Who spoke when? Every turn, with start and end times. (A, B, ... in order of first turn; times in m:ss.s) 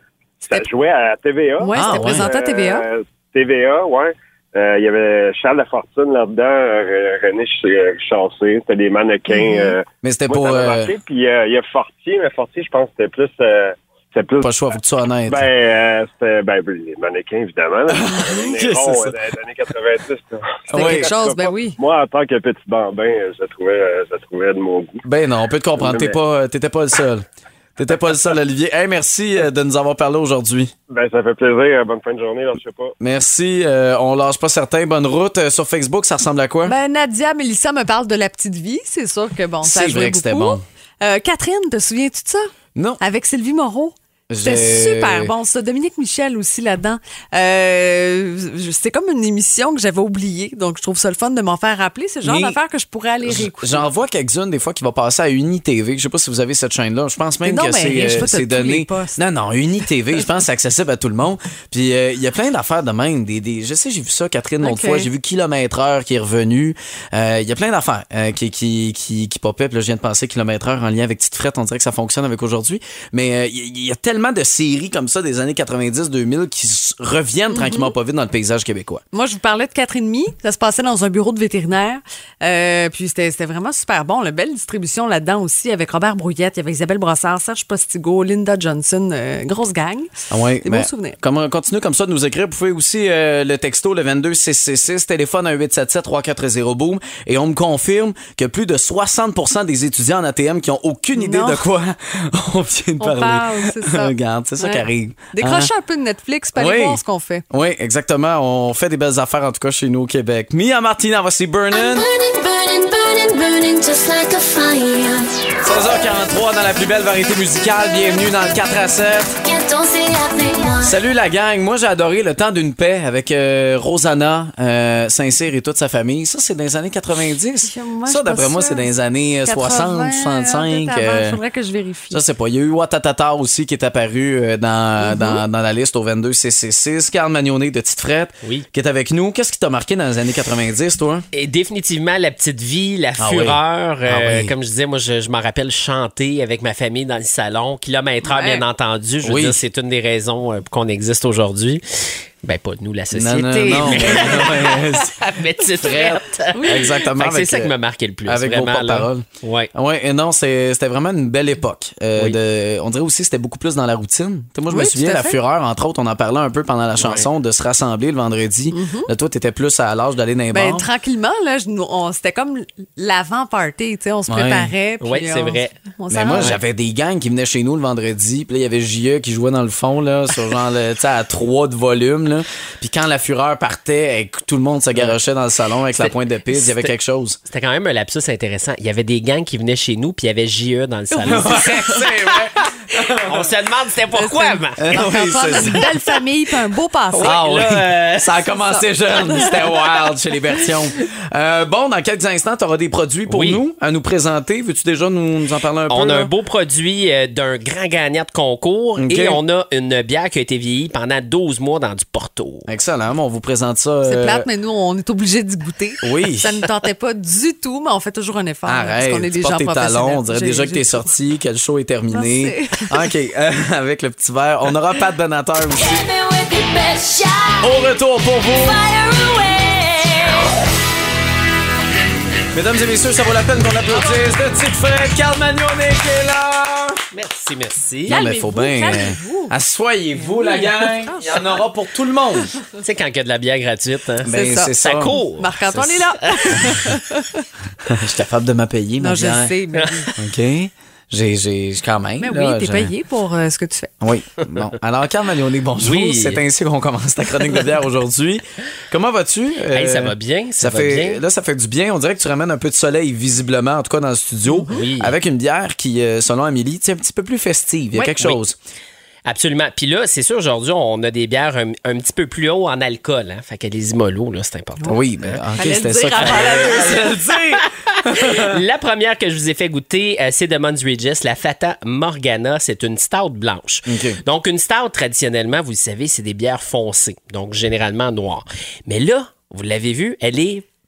0:00.4-0:14.5 A
0:01.6-0:02.8 B
0:01.7-0:02.3 C
0:09.3-0:09.7 B
0:10.0-0:10.9 C
0:14.4-0:15.4 C
0:15.3-0:25.0 A
0:17.9-0:19.2 C
0:20.7-0:21.1 C
0:20.7-0:21.8 B
0:25.0-0:27.2 C
0:25.8-0:26.1 A
0:27.8-0:30.7 C
0:30.9-0:32.9 A
0:33.0-0:36.8 C
0:36.7-0:53.8 B
0:39.6-0:40.6 C
0:44.3-0:45.3 C
0:52.2-0:52.6 C
0:53.2-1:19.0 C
0:57.4-0:59.2 B
1:04.6-1:05.1 B
1:17.5-1:17.9 B
1:19.1-1:30.1 B
1:30.3-1:45.7 C
1:30.6-1:31.2 B
1:41.2-1:41.6 B
1:43.0-1:47.4 B
1:46.6-1:52.1 C
1:51.7-1:55.5 D
1:55.6-1:59.3 C
1:59.4-2:01.0 D
2:00.8-2:11.4 C
2:07.6-2:08.9 B
2:09.4-2:12.2 B
2:12.1-2:21.2 C
2:15.0-2:15.4 B
2:21.3-2:31.8 E
2:23.2-2:24.5 C
2:28.2-2:28.6 B
2:29.2-2:29.6 C
2:32.4-2:39.7 E
2:33.1-2:35.2 C
2:35.8-2:37.7 C
2:36.6-2:36.8 B
2:38.3-2:50.9 C
2:44.7-2:45.4 B
2:47.0-2:47.3 E
2:48.7-2:49.1 B
2:50.5-2:56.6 B
2:54.3-2:54.7 C
2:55.0-2:55.7 E
2:56.1-3:07.4 C
3:06.0-3:06.9 E
3:07.5-3:12.0 E
3:11.1-3:12.0 B
3:11.2-3:13.5 C
3:13.2-3:15.0 E
3:14.2-3:17.4 B
3:14.8-3:15.9 C
3:17.1-3:18.5 E
3:17.2-3:26.3 C
3:19.2-3:19.5 B
3:23.3-3:23.6 E
3:25.9-3:32.7 E
3:29.0-3:29.4 C
3:32.7-3:34.5 C
3:34.0-3:41.1 B
3:36.0-3:36.6 C
3:38.7-3:46.1 C
3:42.1-3:43.0 B
3:45.8-3:47.8 D
3:47.6-3:48.8 C
3:48.5-3:50.5 D
3:52.5-3:57.0 C
3:57.1-3:58.2 E
3:58.1-4:02.5 C
3:58.1-3:59.5 B
4:00.2-4:01.4 B
4:02.8-4:06.7 E
4:04.2-4:05.2 C
4:04.3-4:04.7 B
4:05.4-4:07.5 B
4:07.9-4:09.5 C
4:09.0-4:10.1 B
4:09.8-4:10.1 E
4:10.2-4:12.9 C
4:12.2-4:13.9 B
4:14.0-4:28.6 C
4:14.4-4:14.7 E
4:15.8-4:16.4 E
4:19.7-4:21.2 E
4:24.5-4:24.8 B
4:24.7-4:25.2 E
4:28.0-4:28.4 E
4:29.3-4:35.4 E
4:34.9-4:38.6 C
4:35.6-4:37.1 B
4:36.2-4:37.0 E
4:38.1-4:50.6 E
4:43.9-4:44.2 C